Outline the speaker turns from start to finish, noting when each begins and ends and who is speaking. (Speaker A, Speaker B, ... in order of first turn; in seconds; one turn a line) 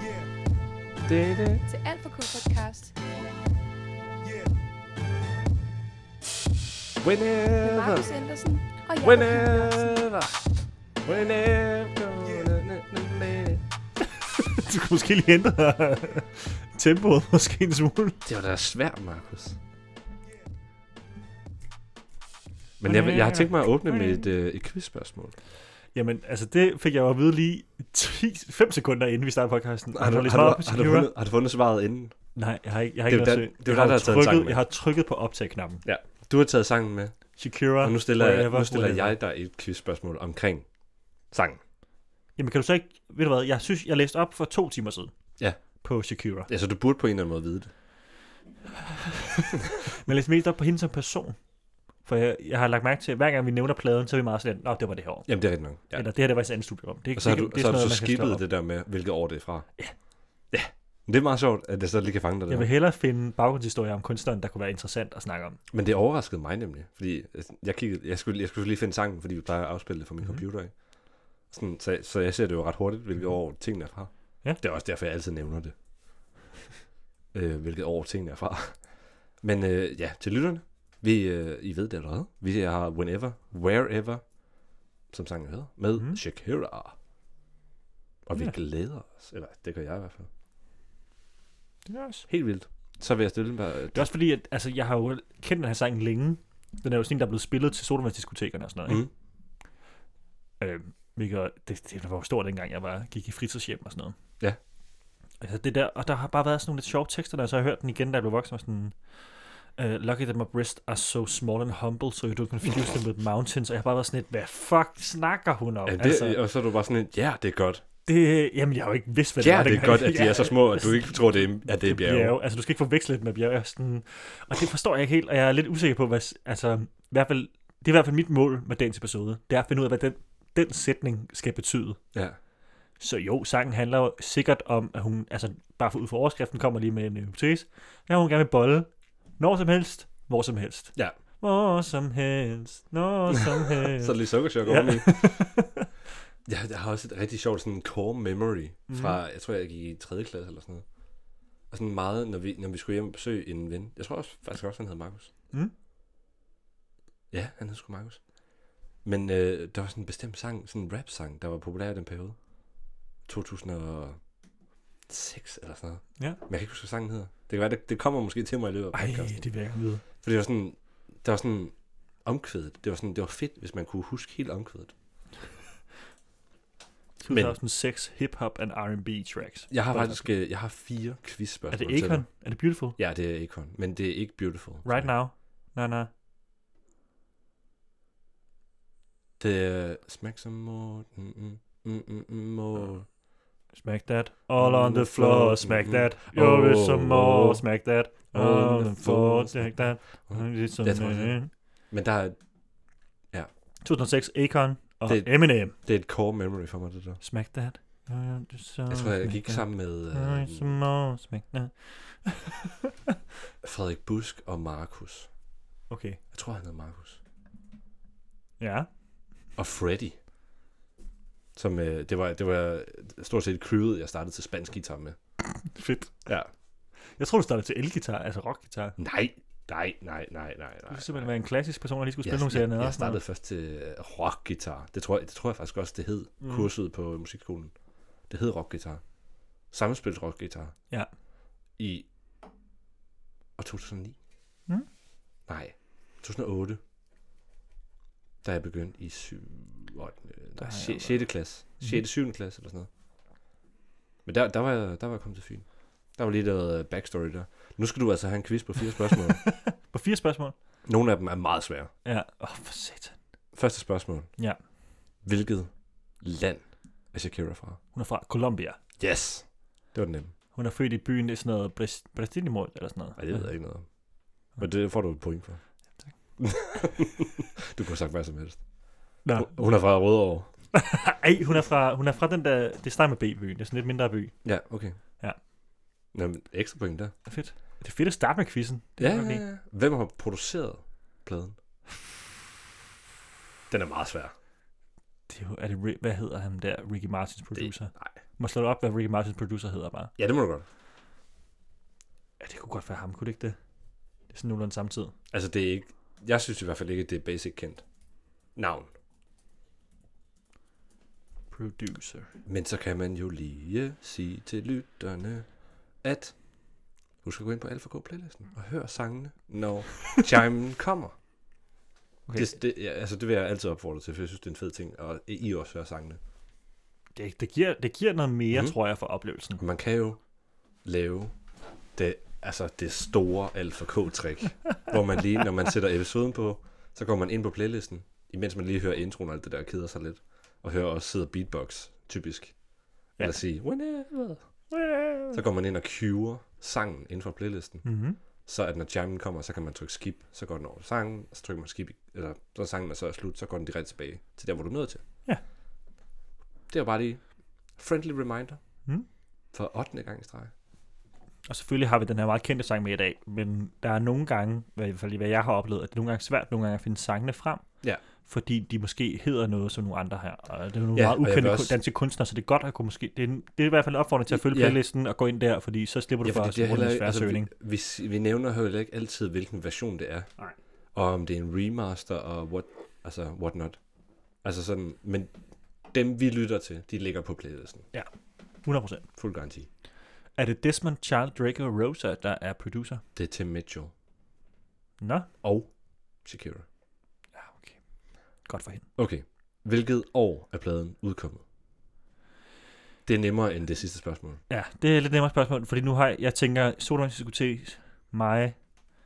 Speaker A: 1.0-1.6
Speaker B: 1.7-2.9
Speaker A: 7.0-8.1
Speaker B: 7.6-10.1
Speaker A: 9.0-10.4
Speaker A: 11.0-13.6
Speaker C: 14.2-18.2
Speaker A: 18.2-19.6
Speaker A: 22.8-25.4
Speaker C: 22.8-24.2
Speaker C: 25.9-31.1
Speaker A: 29.9-32.1
Speaker C: 32.3-35.8
Speaker A: 33.1-34.6
Speaker A: 35.8-40.7
Speaker C: 37.4-39.1
Speaker A: 41.3-41.6
Speaker C: 42.4-45.1
Speaker C: 45.8-46.5
Speaker A: 46.5-47.7
Speaker C: 49.0-51.4
Speaker C: 52.0-55.3
Speaker A: 55.3-56.1
Speaker C: 55.9-58.4
Speaker A: 57.1-59.7
Speaker A: 60.5-62.7
Speaker C: 62.5-65.6
Speaker A: 65.7-70.8
Speaker A: 71.5-75.7
Speaker A: 77.3-84.2
Speaker A: 85.1-86.9
Speaker A: 88.2-90.3
Speaker C: 91.8-92.2
Speaker A: 92.3-94.1
Speaker C: 93.9-99.0
Speaker C: 100.6-104.2
Speaker C: 105.4-116.4
Speaker A: 115.8-117.8
Speaker C: 118.0-121.0
Speaker A: 119.4-122.3
Speaker C: 121.7-132.0
Speaker C: 133.0-145.9
Speaker A: 143.8-145.5
Speaker A: 146.5-150.8
Speaker C: 148.9-149.2
Speaker A: 151.7-155.3
Speaker A: 157.3-158.3
Speaker A: 159.0-162.4
Speaker A: 163.2-164.2
Speaker A: 165.1-169.4
Speaker C: 168.9-170.0
Speaker A: 170.2-174.9
Speaker C: 177.2-180.3
Speaker A: 177.3-177.5
Speaker A: 179.7-182.2
Speaker C: 181.7-183.0
Speaker A: 183.0-185.1
Speaker C: 184.8-186.1
Speaker A: 189.4-193.1
Speaker C: 193.7-201.5
Speaker A: 194.6-197.6
Speaker A: 198.3-201.4
Speaker A: 201.9-202.4
Speaker C: 203.8-205.7
Speaker A: 205.1-207.2
Speaker C: 207.2-212.7
Speaker A: 208.9-210.8
Speaker A: 213.6-215.3
Speaker C: 215.9-216.2
Speaker A: 216.3-217.2
Speaker C: 218.6-218.9
Speaker A: 219.6-220.2
Speaker A: 221.6-225.2
Speaker C: 225.6-226.2
Speaker C: 227.2-229.0
Speaker A: 229.0-231.3
Speaker C: 230.9-233.2
Speaker A: 232.2-237.7
Speaker C: 236.4-236.7
Speaker A: 238.3-239.0
Speaker A: 239.7-240.7
Speaker A: 241.8-242.1
Speaker A: 243.6-244.2
Speaker A: 245.5-246.8
Speaker A: 248.4-252.9
Speaker C: 250.6-252.0
Speaker A: 254.2-259.4
Speaker C: 259.4-260.5
Speaker A: 260.8-261.9
Speaker C: 262.0-263.1
Speaker A: 263.5-264.3
Speaker A: 265.2-267.8
Speaker C: 267.9-268.8
Speaker A: 269.0-270.3
Speaker C: 270.5-273.5
Speaker A: 273.2-273.9
Speaker A: 274.5-275.6
Speaker A: 276.4-278.6
Speaker C: 279.2-279.6
Speaker A: 279.3-280.5
Speaker C: 280.7-284.3
Speaker A: 284.4-284.9
Speaker A: 286.1-287.1
Speaker C: 287.2-289.4
Speaker A: 289.0-291.6
Speaker A: 293.7-294.3
Speaker C: 295.3-300.1
Speaker A: 297.5-298.1
Speaker A: 300.2-300.6
Speaker C: 302.4-303.6
Speaker C: 304.3-305.1
Speaker A: 305.3-307.8
Speaker A: 308.6-308.9
Speaker C: 311.5-312.3
Speaker A: 312.4-315.5
Speaker A: 316.0-316.4
Speaker A: 317.2-321.1
Speaker A: 322.3-326.2
Speaker C: 327.1-329.6
Speaker A: 328.5-328.8
Speaker A: 329.6-330.2
Speaker A: 330.8-331.3
Speaker A: 331.9-342.6
Speaker A: 343.2-344.5
Speaker C: 344.7-345.4
Speaker A: 345.3-347.8
Speaker C: 347.8-348.2
Speaker A: 348.4-355.0
Speaker A: 356.7-358.6
Speaker A: 359.5-360.5
Speaker C: 361.5-367.6
Speaker C: 368.2-377.5
Speaker A: 370.9-371.8
Speaker A: 374.3-374.8
Speaker A: 376.2-380.3
Speaker A: 380.9-383.8
Speaker A: 384.4-385.3
Speaker A: 385.9-387.8
Speaker C: 388.6-389.1
Speaker A: 389.2-389.7
Speaker C: 390.4-393.0
Speaker A: 393.1-393.9
Speaker C: 395.0-395.3
Speaker A: 395.4-395.7
Speaker A: 396.2-396.6
Speaker C: 397.3-397.8
Speaker C: 398.4-398.8
Speaker A: 399.0-401.4
Speaker A: 403.1-404.4
Speaker C: 404.5-408.6